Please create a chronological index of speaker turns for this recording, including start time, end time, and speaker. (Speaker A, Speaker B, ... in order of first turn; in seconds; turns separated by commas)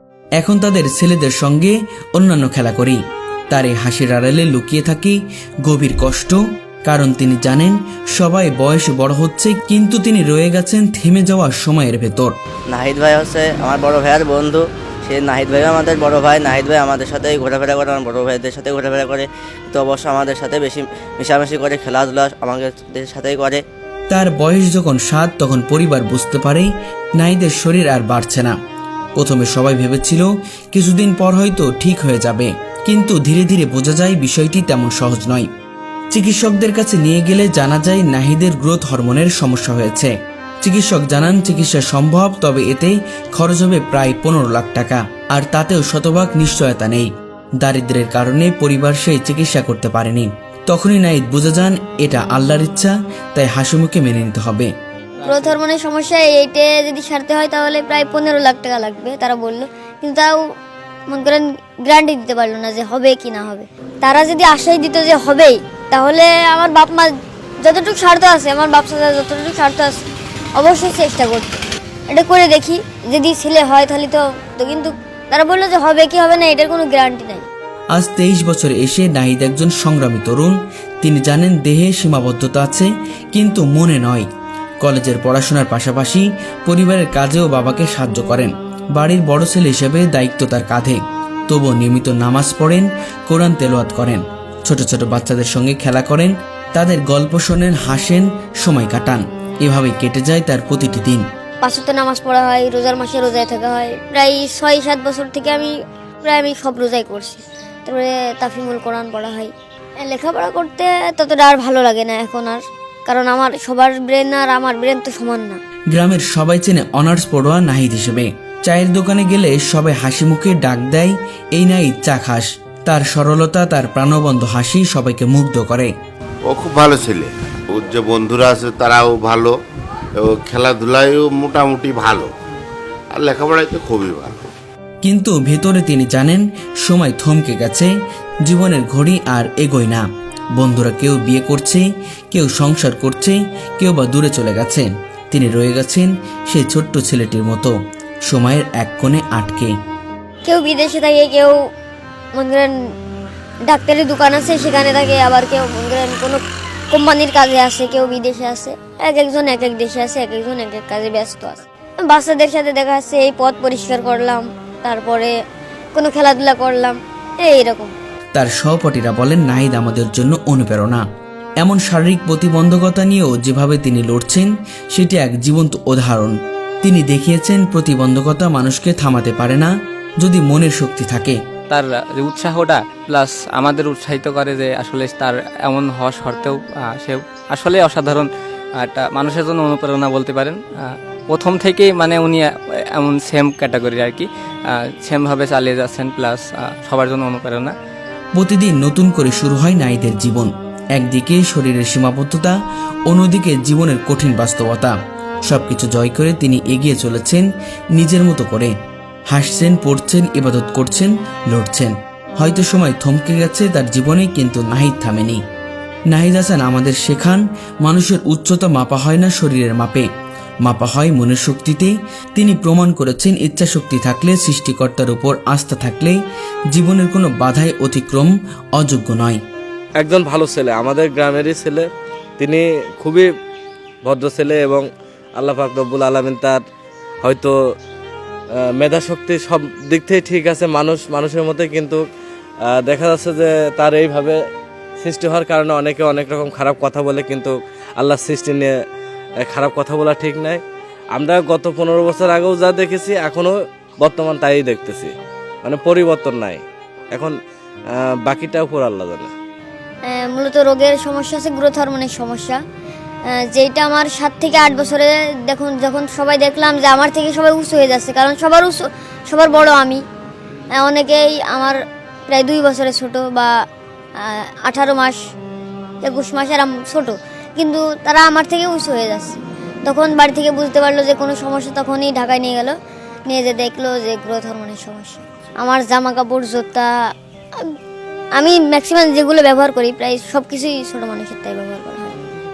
Speaker A: 0.4-3.0, Speaker A: 3.5-12.3, Speaker B: 12.7-23.6, Speaker A: 24.1-28.5, Speaker A: 29.1-35.5, Speaker A: 36.1-54.7, Speaker C: 55.2-60.4, Speaker C: 61.1-67.1, Speaker C: 67.6-70.0, Speaker C: 70.5-77.5, Speaker A: 77.9-84.2, Speaker A: 84.8-101.2, Speaker C: 101.6-105.7, Speaker C: 106.2-109.5, Speaker C: 110.0-115.6, Speaker A: 115.9-125.9, Speaker D: 126.5-129.5, Speaker D: 130.2-132.3, Speaker D: 133.1-134.4, Speaker A: 135.0-137.9, Speaker A: 138.4-147.7, Speaker A: 148.3-149.7, Speaker C: 150.4-151.5, Speaker C: 152.3-152.7, Speaker C: 153.7-156.4, Speaker C: 156.9-165.3, Speaker C: 165.9-167.9, Speaker A: 168.3-171.0, Speaker A: 171.6-181.4, Speaker E: 181.7-188.3, Speaker E: 188.8-197.7, Speaker A: 198.3-202.5, Speaker A: 203.1-208.7, Speaker A: 209.3-215.4, Speaker A: 216.1-220.1, Speaker A: 220.6-226.2, Speaker A: 226.7-229.4, Speaker F: 230.0-231.8, Speaker F: 232.4-233.3, Speaker F: 234.0-236.6, Speaker F: 237.2-237.5, Speaker F: 238.6-242.0, Speaker F: 242.7-244.4, Speaker F: 245.0-248.7, Speaker F: 249.4-250.6, Speaker F: 251.1-255.1, Speaker F: 255.6-256.6, Speaker F: 257.9-259.3, Speaker C: 260.1-262.6, Speaker C: 263.5-270.0, Speaker C: 270.8-271.8, Speaker C: 272.3-273.5, Speaker C: 274.2-275.2, Speaker C: 276.0-282.7, Speaker C: 283.3-286.9, Speaker C: 288.4-292.2